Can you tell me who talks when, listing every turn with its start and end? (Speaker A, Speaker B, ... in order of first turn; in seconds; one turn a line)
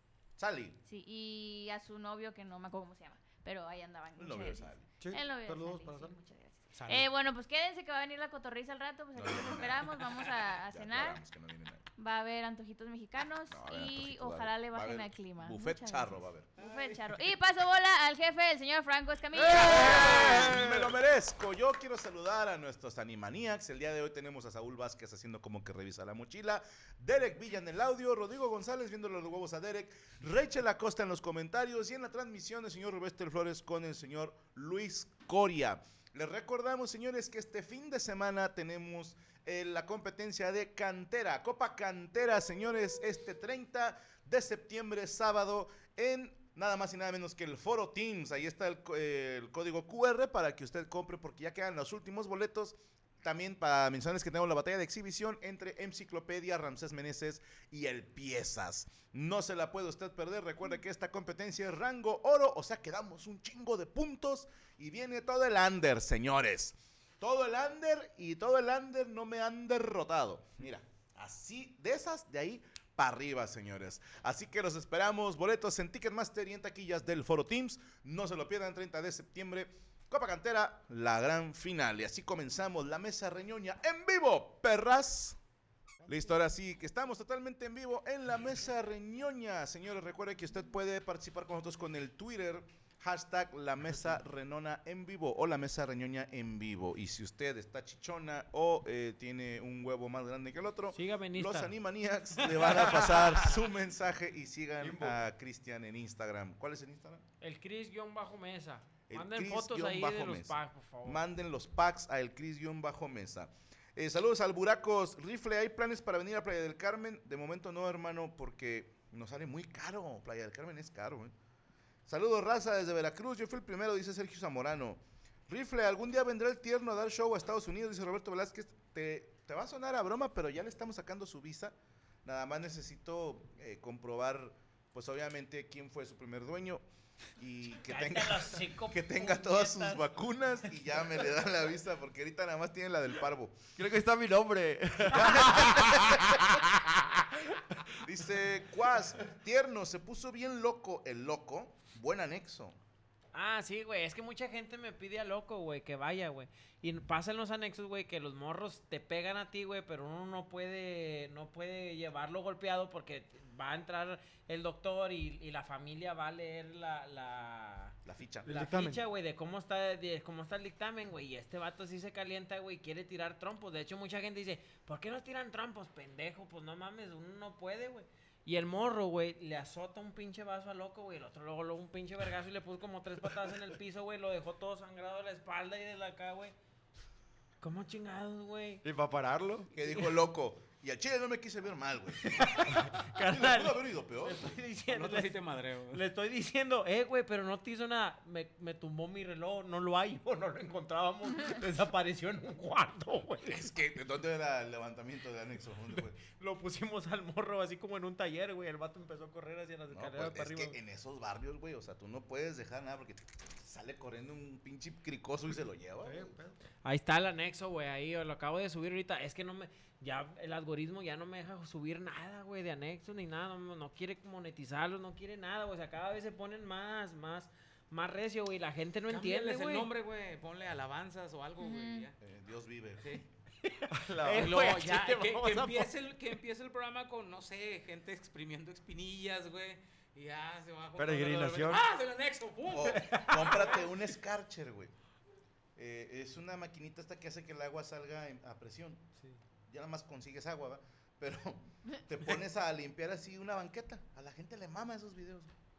Speaker A: 0.4-0.8
Speaker B: 0.8-11.2
Speaker A: 4.2-4.9
Speaker C: 5.0-6.2
Speaker D: 6.7-7.1
Speaker A: 9.2-10.0
Speaker A: 10.7-11.9
Speaker B: 12.0-20.5
Speaker A: 13.5-16.6
Speaker D: 16.6-17.1
Speaker E: 19.4-21.0
Speaker A: 19.5-85.4
Speaker A: 86.1-107.2
Speaker F: 100.9-101.7
Speaker E: 104.8-105.2
Speaker F: 107.4-111.2
Speaker A: 109.1-121.3
Speaker A: 122.0-136.8
Speaker A: 137.4-143.6
Speaker F: 137.8-141.3
Speaker E: 143.8-147.9
Speaker A: 145.3-145.8
Speaker A: 148.0-152.8
Speaker F: 153.3-186.5
Speaker A: 168.0-168.6
Speaker C: 168.4-169.0
Speaker F: 187.6-188.8
Speaker E: 188.8-189.7
Speaker A: 189.7-194.5
Speaker F: 192.2-203.6
Speaker D: 194.9-196.0
Speaker A: 203.4-206.2
Speaker F: 206.2-210.8
Speaker A: 209.9-216.3
Speaker C: 216.0-216.6
Speaker F: 216.8-229.9
Speaker D: 229.1-232.2
Speaker B: 231.6-232.1
Speaker A: 232.2-233.2
Speaker F: 233.6-235.9
Speaker E: 233.9-234.7
Speaker D: 234.3-243.8
Speaker E: 241.0-241.8
Speaker A: 242.7-244.9
Speaker F: 242.9-243.8
Speaker A: 245.8-249.0
Speaker A: 249.7-255.5